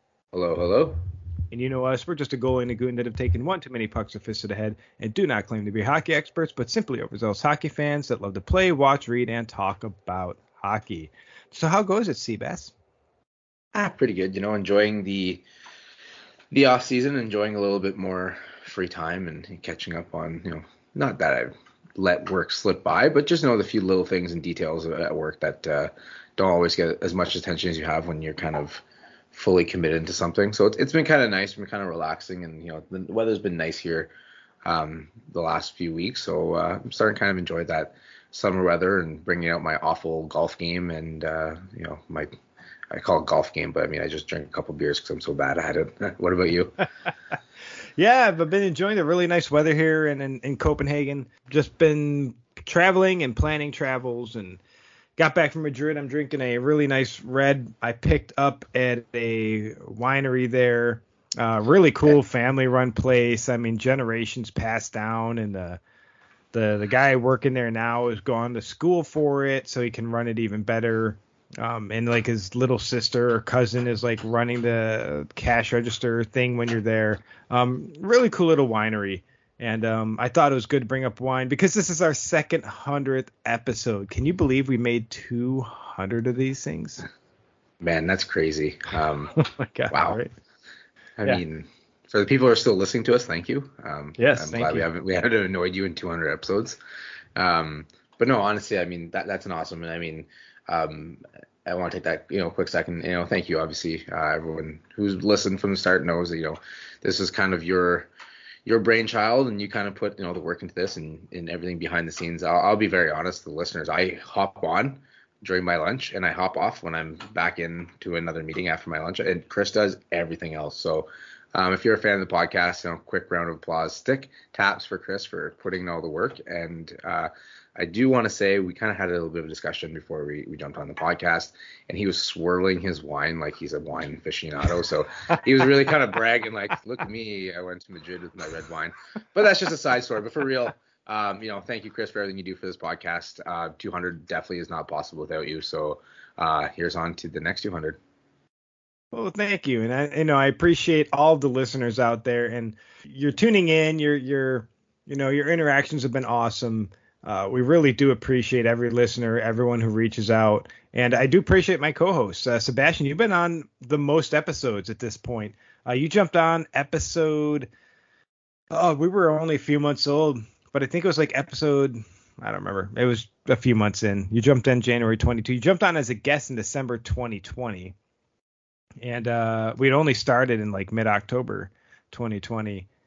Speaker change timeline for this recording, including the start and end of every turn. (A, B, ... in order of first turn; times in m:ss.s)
0:00.3-0:01.0 A
0:01.5-0:12.7 B
0:13.7-0:15.4 A
0:16.5-0:34.1 A
0:34.6-0:42.3 A
0:42.9-0:46.8 A
0:48.0-0:54.6 B
0:55.2-1:05.8 B
1:06.5-1:27.0 B
1:27.8-1:29.3 A
1:29.4-1:30.3 B
1:29.9-1:30.2 A
1:31.2-1:36.8 A
1:34.2-1:34.9 B
1:37.4-1:48.1 A
1:48.6-2:28.0 A
2:29.1-2:47.7 B
2:48.7-2:57.9 B
2:59.0-3:02.8 B